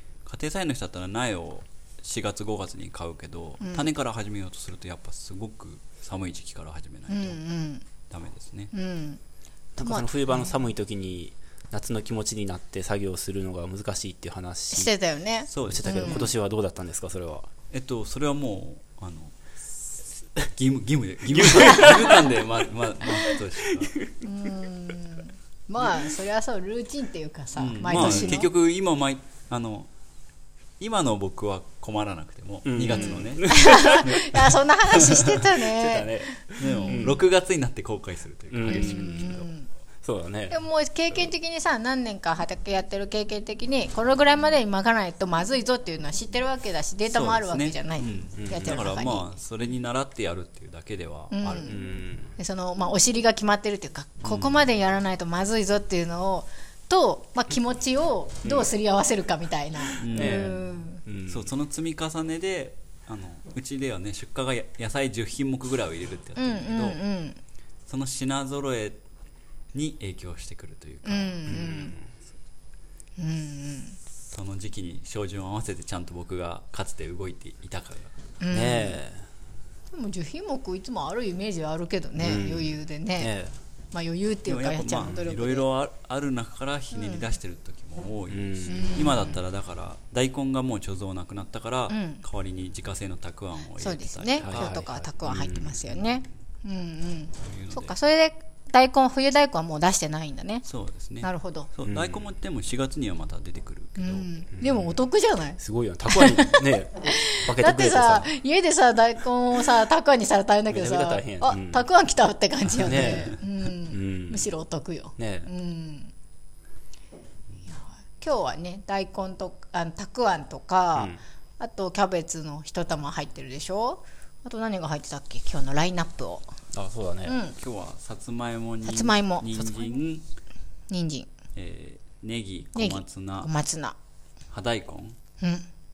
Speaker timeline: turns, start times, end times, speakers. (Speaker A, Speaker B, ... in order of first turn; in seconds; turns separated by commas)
Speaker A: 0.2-7.4, Speaker B: 3.6-3.9, Speaker B: 7.1-7.8, Speaker A: 8.1-8.7, Speaker B: 8.7-9.2, Speaker C: 9.8-14.9, Speaker B: 9.8-10.5, Speaker B: 14.7-16.3, Speaker A: 15.5-16.2, Speaker C: 15.6-17.5, Speaker A: 17.7-24.0, Speaker C: 21.3-22.4, Speaker B: 24.2-28.5, Speaker A: 27.6-29.9, Speaker C: 27.9-28.4, Speaker A: 30.8-35.1, Speaker C: 32.6-34.0, Speaker B: 32.9-37.1, Speaker C: 35.6-37.2, Speaker A: 36.6-39.5, Speaker C: 38.5-39.4, Speaker B: 38.7-39.7, Speaker C: 40.0-40.6, Speaker B: 40.5-49.3, Speaker A: 47.1-51.8, Speaker C: 48.4-48.8, Speaker B: 51.3-51.8, Speaker C: 51.6-52.3, Speaker B: 52.4-61.0, Speaker A: 54.3-54.6, Speaker C: 58.5-58.7, Speaker A: 60.0-60.6, Speaker C: 60.1-61.5, Speaker A: 61.3-67.0, Speaker B: 66.4-67.4, Speaker A: 67.9-69.0, Speaker A: 69.7-71.8, Speaker B: 71.0-72.0, Speaker C: 71.5-72.0, Speaker B: 73.2-74.0, Speaker A: 74.2-78.1, Speaker B: 78.4-79.0, Speaker C: 78.5-79.3, Speaker B: 79.9-83.3, Speaker C: 82.2-83.5, Speaker B: 83.9-85.7, Speaker A: 84.5-94.7, Speaker B: 86.9-87.3, Speaker C: 88.3-89.2, Speaker B: 88.7-89.4, Speaker B: 91.9-92.2, Speaker B: 93.8-100.7, Speaker C: 94.4-96.0, Speaker A: 97.4-98.0, Speaker A: 100.7-104.3, Speaker B: 101.2-101.7, Speaker C: 101.8-102.3, Speaker B: 104.0-116.1, Speaker C: 104.6-104.9, Speaker C: 105.6-108.3, Speaker C: 110.7-111.9, Speaker C: 112.8-114.5, Speaker A: 112.9-113.3, Speaker C: 115.2-115.5, Speaker B: 117.7-126.5, Speaker C: 126.7-127.4, Speaker B: 127.2-127.6, Speaker A: 127.6-130.2, Speaker B: 128.8-129.7, Speaker B: 130.9-131.3, Speaker A: 131.6-133.5, Speaker B: 132.8-134.0, Speaker A: 134.5-135.2, Speaker B: 135.4-135.7